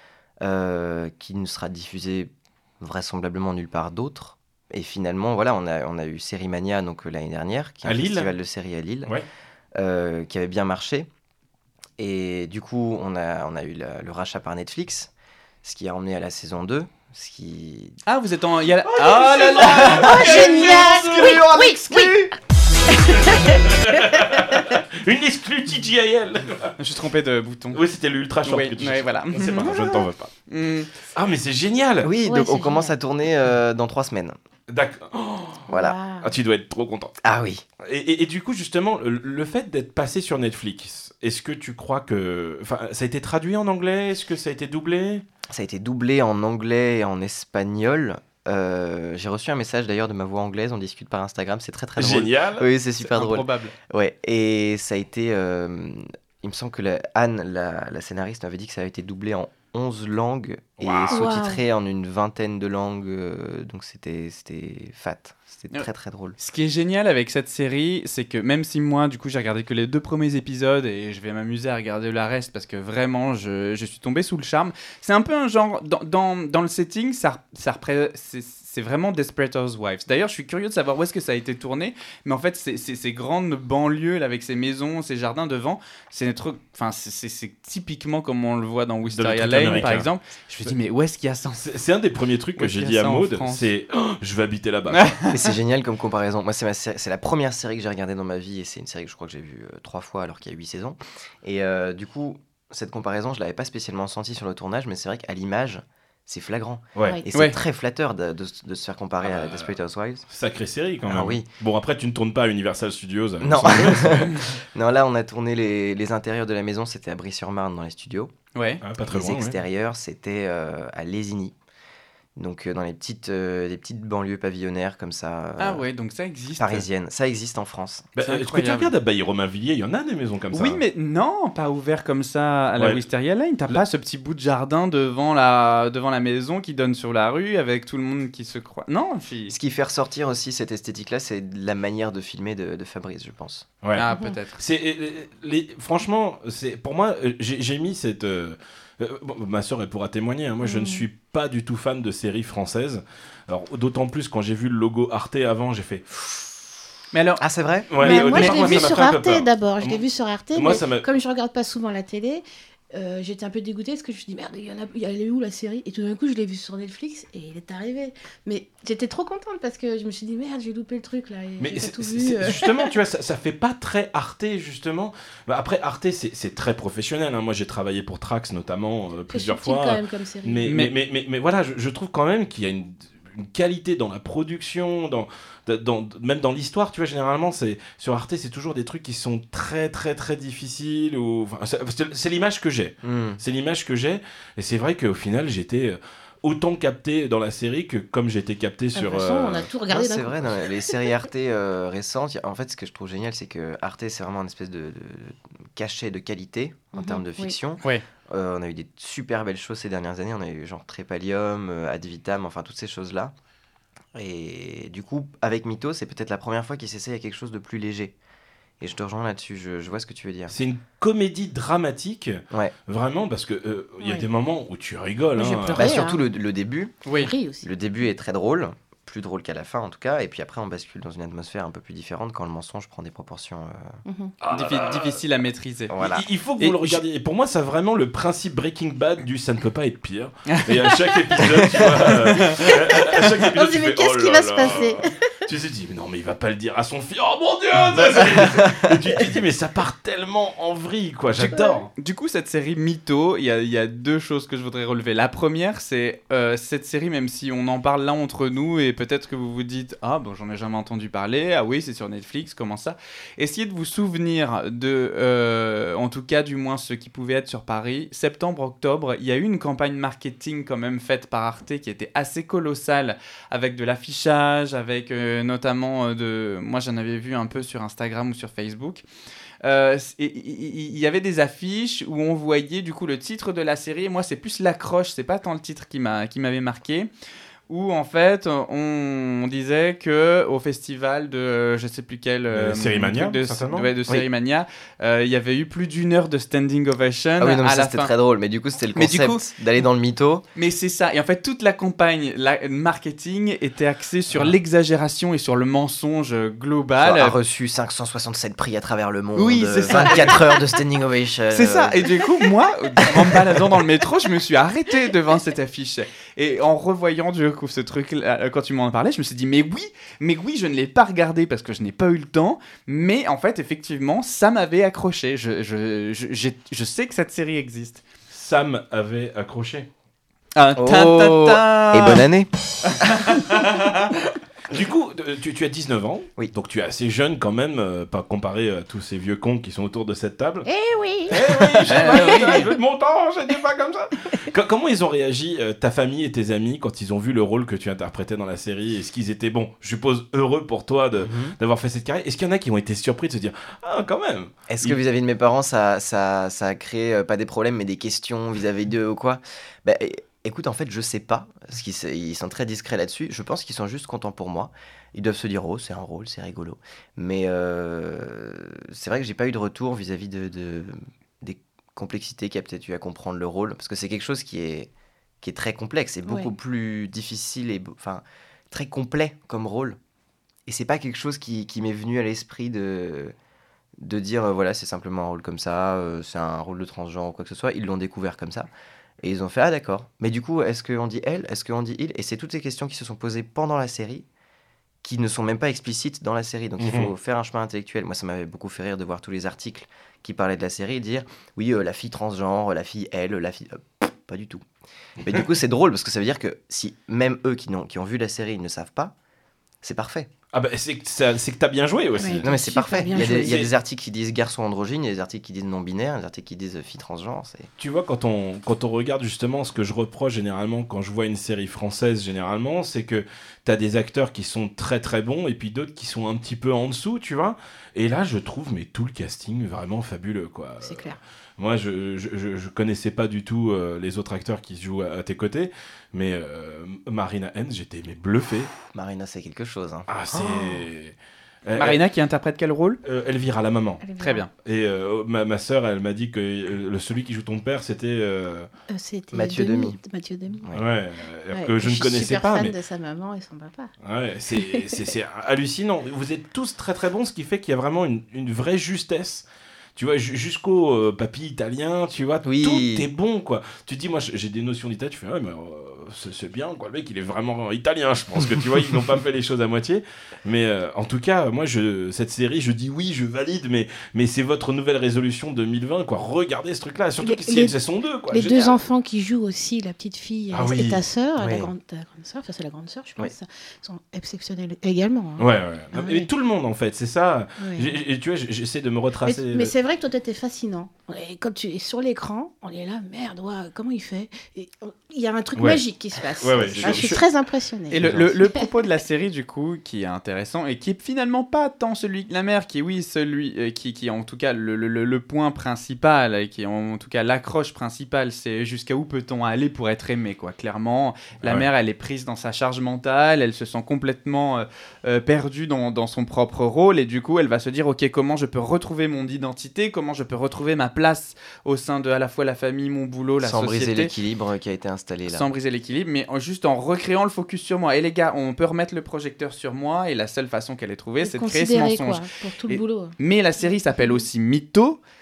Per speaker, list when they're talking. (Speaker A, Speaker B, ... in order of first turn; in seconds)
Speaker A: 0.4-9.1, 9.8-11.1, 12.0-15.1, 15.6-18.0, 21.2-22.3, 32.0-34.3, 35.7-36.0, 37.2-37.6, 45.5-66.4, 95.3-110.2, 111.0-111.5, 113.4-118.3, 119.1-121.5, 122.3-125.8, 126.6-128.1, 139.5-143.7, 157.4-157.9, 193.0-193.4, 199.9-213.3, 214.1-218.1, 218.8-220.5, 225.7-226.9, 227.6-234.0, 235.9-236.2, 248.5-248.9, 297.4-300.4, 307.0-312.1, 313.2-313.5, 330.8-332.5, 351.2-351.5, 354.7-374.9, 375.4-380.0, 380.6-383.3, 384.0-388.7, 389.2-394.2, 395.0-404.6, 405.2-409.1, 409.8-410.3, 412.4-417.7, 438.9-440.1, 449.3-450.0, 462.4-463.1, 481.4-481.7, 496.6-497.2, 498.0-498.3, 523.4-525.5
Speaker B: 7.8-8.3, 18.8-21.7, 22.9-26.7, 27.7-30.3, 31.1-32.1, 34.7-37.1, 37.8-45.2, 52.0-52.6, 60.8-61.3, 89.1-90.1, 91.5-95.2, 106.9-107.2, 109.2-109.7, 110.3-114.4, 118.8-119.6, 128.2-130.8, 132.8-133.0, 143.8-156.1, 157.9-161.0, 171.6-199.7, 220.5-226.1, 234.4-235.2, 235.9-251.9, 292.5-293.9, 328.3-329.9, 334.7-340.7, 341.3-355.0, 396.8-397.1, 410.5-413.7, 417.8-438.7, 440.1-442.0, 443.0-444.0, 444.6-448.7, 450.7-452.8, 454.0-478.8, 480.5-481.0, 485.4-489.7, 495.6-495.8, 496.4-497.2
Speaker C: 18.1-21.4, 26.8-27.8, 28.4-30.9, 53.0-53.7, 66.4-91.7, 92.6-93.7, 94.9-95.5, 118.5-118.8, 125.6-126.8, 128.2-128.9, 130.5-139.5, 143.9-144.6, 157.1-157.4, 157.9-158.9, 180.6-180.9, 227.1-227.3, 234.5-235.9, 236.6-237.0, 240.5-242.7, 251.3-279.0, 279.6-287.1, 287.7-298.1, 298.9-299.5, 300.6-307.4, 309.3-310.6, 311.5-328.0, 330.5-332.2, 332.8-334.1, 341.9-342.6, 441.8-443.0, 444.2-444.5, 497.9-524.1, 525.3-535.0
Speaker D: 19.8-22.2, 22.9-23.8, 24.5-24.8, 32.2-32.9, 35.7-36.3, 61.1-61.6, 144.0-144.3, 150.6-151.0, 158.0-172.9, 179.3-180.6, 198.9-200.9, 206.9-207.6, 224.0-224.2, 225.4-226.2, 227.2-227.7, 234.1-234.3, 242.7-245.2, 251.5-251.8, 340.6-342.7, 376.2-376.5, 412.2-413.6, 430.8-431.2, 444.0-444.4, 448.9-450.6, 451.5-453.9, 454.5-455.0, 477.2-477.8, 478.3-486.3, 487.6-487.9, 489.2-498.6, 531.2-534.2